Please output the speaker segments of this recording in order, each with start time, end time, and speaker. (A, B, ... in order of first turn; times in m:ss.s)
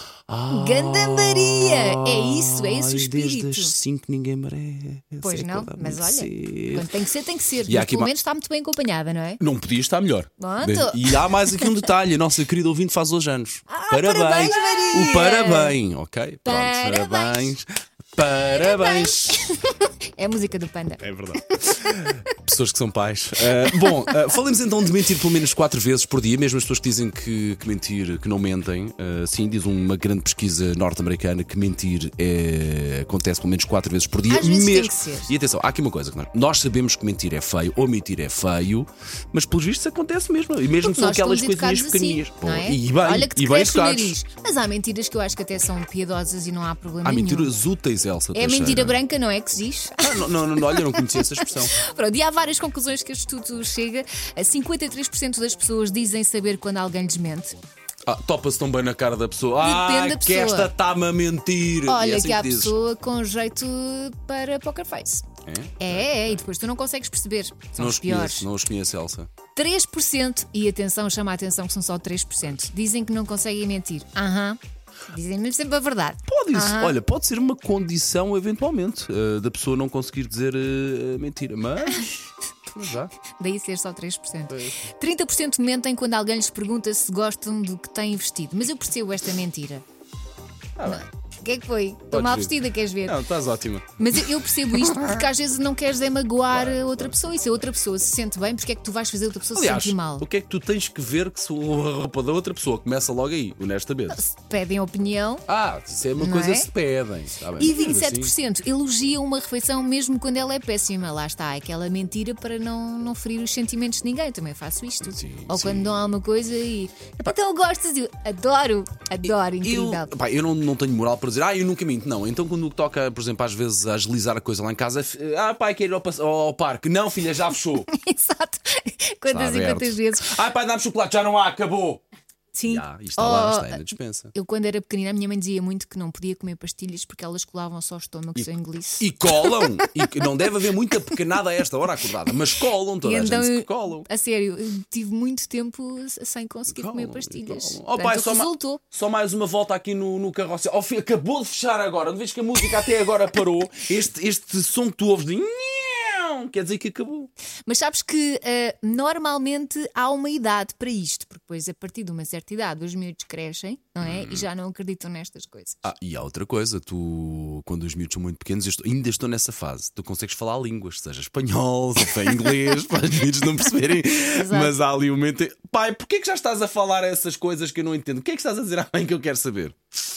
0:00.3-0:06.9 A
0:00.5-0:03.7 B
0:05.2-0:09.4 B
0:07.6-0:08.1 A
0:09.4-0:19.4 A
0:10.4-0:11.9 B
0:13.7-0:15.8 B
0:16.4-0:17.5 B
0:18.3-0:22.1 B
0:21.0-0:44.1 A
0:23.7-0:24.2 B
0:34.3-0:35.3 B
0:40.8-0:47.5 B
0:47.0-0:49.0 A
0:48.3-0:57.6 B
0:50.0-0:51.7 A
0:58.0-1:02.7 A
0:59.6-1:00.7 B
1:01.8-1:05.3 B
1:05.4-1:06.5 A
1:05.8-1:08.5 B
1:07.8-1:09.3 A
1:09.6-1:17.0 B
1:16.3-1:22.1 A
1:21.8-1:22.2 B
1:22.7-1:23.1 A
1:23.4-1:29.8 B
1:24.5-1:24.8 A
1:30.8-1:31.0 A
1:30.8-1:33.2 B
1:32.1-1:35.2 A
1:34.0-1:40.3 B
1:36.5-1:37.7 A
1:39.5-1:44.2 A
1:44.1-1:45.4 B
1:45.5-1:48.3 A
1:46.2-1:46.7 B
1:47.6-2:00.1 B
1:55.0-1:56.0 A
1:59.6-2:07.9 A
2:07.9-2:10.4 B
2:09.3-2:12.0 A
2:12.5-2:13.8 B
2:12.6-2:14.3 A
2:14.3-2:20.5 B
2:18.4-2:24.1 A
2:23.0-2:28.8 B
2:26.7-2:37.3 A
2:37.7-2:45.8 B
2:44.0-2:44.4 A
2:45.8-2:59.8 A
2:54.3-2:54.7 B